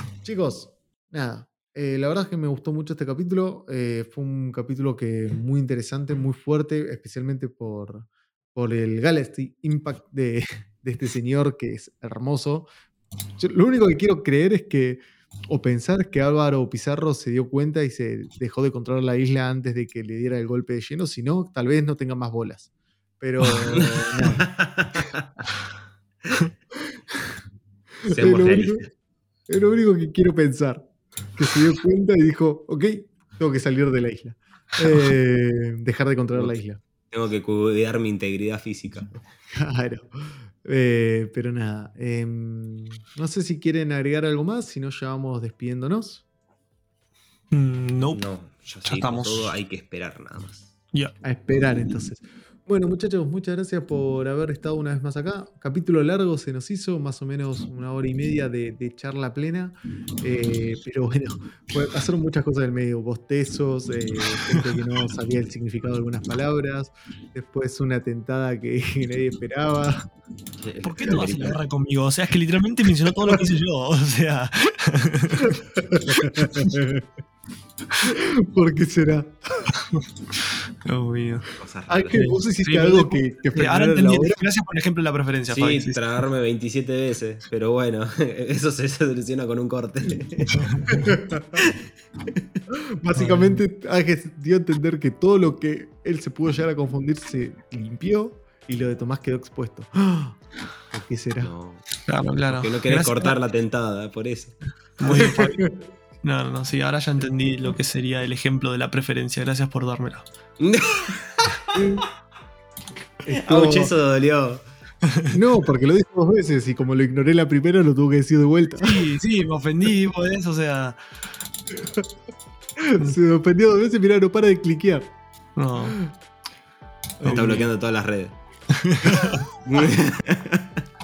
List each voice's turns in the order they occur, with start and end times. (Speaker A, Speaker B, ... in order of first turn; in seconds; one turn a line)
Speaker A: 0.2-12.7
Speaker A: 13.4-24.5
Speaker B: 23.4-23.8
Speaker C: 24.4-25.4
Speaker C: 28.1-28.9
Speaker A: 28.1-28.9
Speaker A: 29.5-36.8
Speaker C: 37.1-39.2
Speaker A: 39.5-46.2
Speaker B: 47.5-48.2
Speaker C: 48.1-50.7
Speaker B: 48.9-49.5
Speaker A: 51.2-70.1
Speaker C: 70.6-71.6
Speaker B: 70.8-75.6
Speaker A: 75.4-77.1
Speaker B: 76.2-76.7
Speaker A: 78.0-79.7
Speaker B: 79.8-81.5
Speaker C: 81.6-82.2
Speaker A: 81.9-84.4
Speaker B: 82.1-86.0
Speaker C: 85.5-90.7
Speaker B: 90.5-91.1
Speaker A: 90.9-91.7
Speaker C: 92.3-92.6
Speaker A: 92.7-100.4
Speaker B: 93.2-93.6
Speaker A: 100.9-101.5
Speaker C: 101.4-101.8
Speaker B: 102.1-103.4
Speaker C: 102.5-104.5
Speaker B: 105.0-105.7
Speaker A: 105.1-105.7
Speaker B: 106.2-110.2
Speaker C: 110.6-111.6
Speaker A: 111.7-112.0
Speaker A: 113.2-113.9
Speaker C: 113.3-114.6
Speaker B: 115.0-115.4
Speaker A: 115.3-119.0
Speaker B: 118.8-121.0
Speaker A: 121.8-122.0
Speaker A: 122.8-125.1
Speaker B: 125.6-126.0
Speaker A: 127.2-127.7
Speaker C: 127.2-128.4
Speaker B: 127.3-127.6
Speaker B: 128.8-129.4
Speaker C: 129.7-130.8